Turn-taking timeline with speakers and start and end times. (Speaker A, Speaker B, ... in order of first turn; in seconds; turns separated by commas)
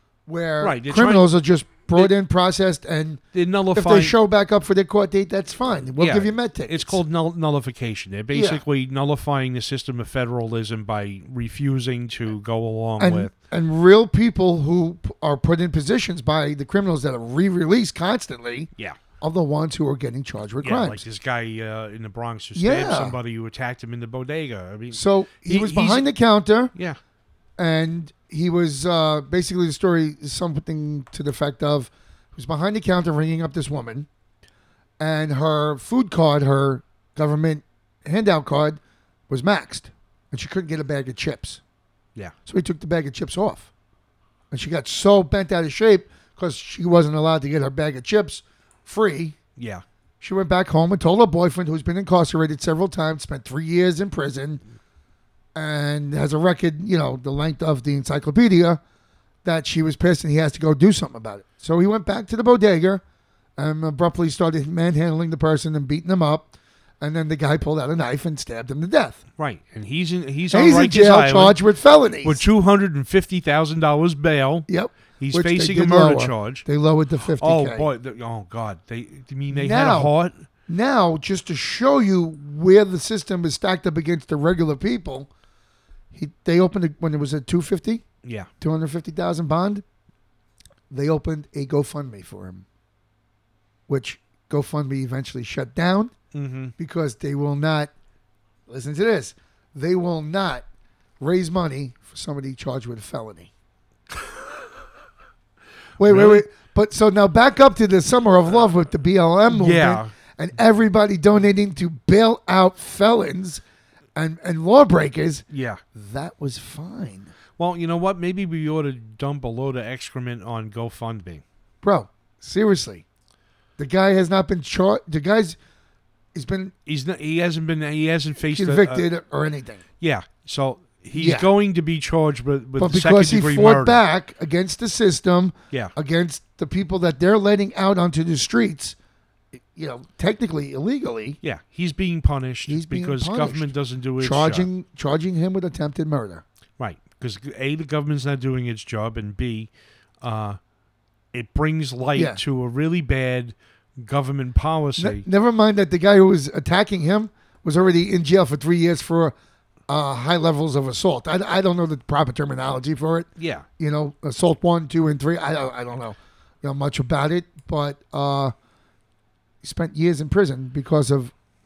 Speaker A: 0.3-3.2, Speaker B: 0.6-1.3, Speaker B: 3.3-4.2, Speaker A: 3.7-7.0, Speaker B: 6.0-13.3, Speaker A: 8.3-8.6, Speaker A: 13.0-21.0, Speaker B: 20.6-26.1, Speaker A: 22.6-23.2, Speaker A: 24.9-26.7, Speaker A: 27.6-34.1, Speaker A: 35.0-41.6, Speaker A: 42.5-43.7, Speaker A: 44.5-49.4, Speaker B: 49.6-49.8, Speaker A: 50.2-54.6, Speaker A: 55.5-58.8, Speaker A: 59.4-63.0, Speaker A: 63.6-69.2, Speaker B: 69.4-71.6, Speaker A: 70.5-72.4, Speaker B: 72.2-76.7, Speaker A: 74.7-77.9, Speaker B: 77.4-80.5, Speaker A: 79.5-80.1, Speaker A: 80.7-85.3, Speaker A: 86.1-88.0, Speaker B: 88.2-88.5, Speaker A: 88.6-89.8, Speaker A: 90.9-92.7, Speaker A: 93.9-96.1, Speaker B: 96.3-96.7, Speaker A: 96.8-97.9, Speaker A: 98.7-100.7, Speaker A: 101.2-103.5, Speaker A: 106.0-113.6, Speaker B: 106.0-106.5, Speaker B: 109.5-110.1, Speaker A: 114.2-117.3, Speaker B: 115.5-115.8, Speaker B: 117.6-121.4, Speaker A: 121.8-123.0, Speaker A: 123.8-125.6, Speaker A: 126.3-126.7, Speaker B: 126.9-129.1, Speaker A: 128.4-129.8, Speaker B: 130.0-134.0, Speaker A: 131.2-131.5, Speaker A: 132.8-139.0, Speaker A: 139.6-141.4, Speaker B: 141.4-144.7, Speaker A: 142.7-146.4, Speaker B: 146.8-149.7, Speaker B: 150.2-150.6, Speaker B: 151.3-155.3, Speaker A: 152.2-152.4, Speaker A: 155.0-159.3, Speaker A: 159.9-168.5, Speaker B: 163.4-163.7, Speaker A: 169.6-171.3